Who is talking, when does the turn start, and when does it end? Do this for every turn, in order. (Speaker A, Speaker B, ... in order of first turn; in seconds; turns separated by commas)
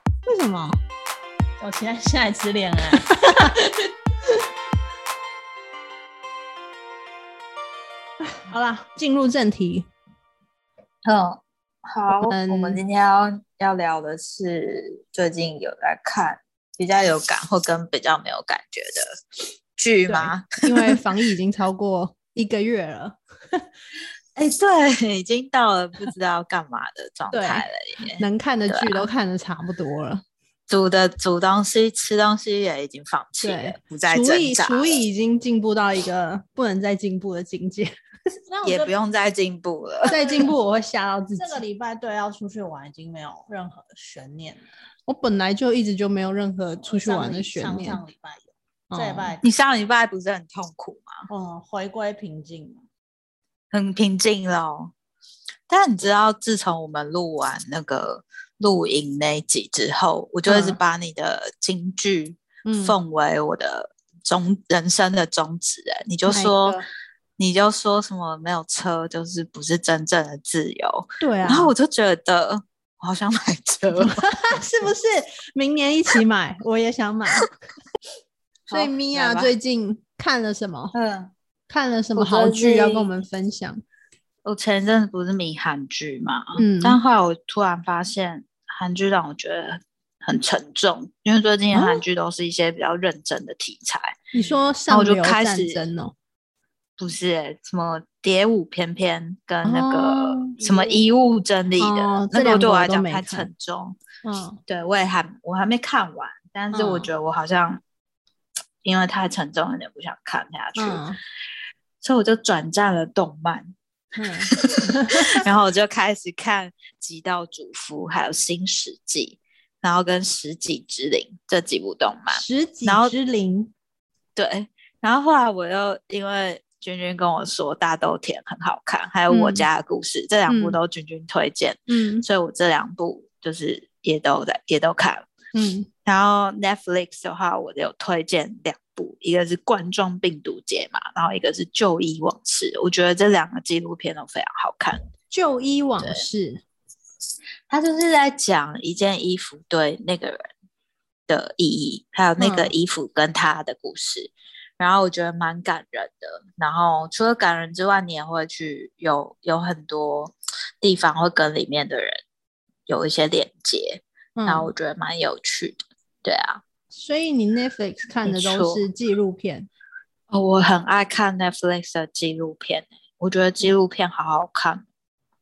Speaker A: 0.3-0.8, Speaker B: 1.6-3.9, Speaker A: 3.0-3.5, Speaker A: 8.2-9.9, Speaker C: 11.1-19.1, Speaker A: 12.3-12.8, Speaker C: 19.8-21.0, Speaker A: 20.1-23.6, Speaker C: 24.4-29.1, Speaker A: 27.3-27.6, Speaker A: 28.2-30.2, Speaker C: 30.7-35.0, Speaker A: 33.4-37.9, Speaker B: 38.5-38.9, Speaker C: 38.6-40.2, Speaker A: 40.1-41.6, Speaker B: 40.2-40.5, Speaker B: 41.4-44.6, Speaker A: 45.1-48.0, Speaker B: 46.9-49.4, Speaker A: 48.9-49.4, Speaker C: 49.4-51.3, Speaker B: 51.3-52.8, Speaker C: 53.7-54.9, Speaker C: 55.7-66.8, Speaker A: 60.5-60.8, Speaker A: 62.7-63.0, Speaker A: 66.3-66.9, Speaker C: 67.4-74.6, Speaker A: 71.2-71.7, Speaker A: 73.9-77.5, Speaker C: 78.7-79.5, Speaker A: 78.7-81.0, Speaker C: 80.9-81.3, Speaker A: 81.7-83.8, Speaker C: 82.2-83.1, Speaker C: 84.4-94.2, Speaker A: 86.6-87.0, Speaker A: 91.7-92.0, Speaker A: 94.3-96.1, Speaker C: 94.9-95.9, Speaker C: 97.0-104.0, Speaker A: 99.6-100.6, Speaker B: 100.6-101.0, Speaker A: 101.8-103.5, Speaker A: 104.2-104.6, Speaker C: 104.7-107.8, Speaker A: 106.7-107.1, Speaker C: 108.8-111.0, Speaker A: 110.8-111.2, Speaker C: 112.0-113.8, Speaker A: 114.2-115.4, Speaker C: 114.5-123.1, Speaker A: 122.3-123.7, Speaker C: 124.4-135.3, Speaker A: 129.3-129.7, Speaker A: 130.5-130.8, Speaker A: 131.9-132.2, Speaker A: 135.5-135.9, Speaker C: 136.1-145.0, Speaker A: 145.3-146.6, Speaker C: 147.7-150.5, Speaker C: 151.3-162.2, Speaker A: 152.4-152.7, Speaker C: 162.9-166.6, Speaker A: 164.4-164.7, Speaker A: 166.9-169.7, Speaker C: 168.2-168.8, Speaker C: 170.3-174.8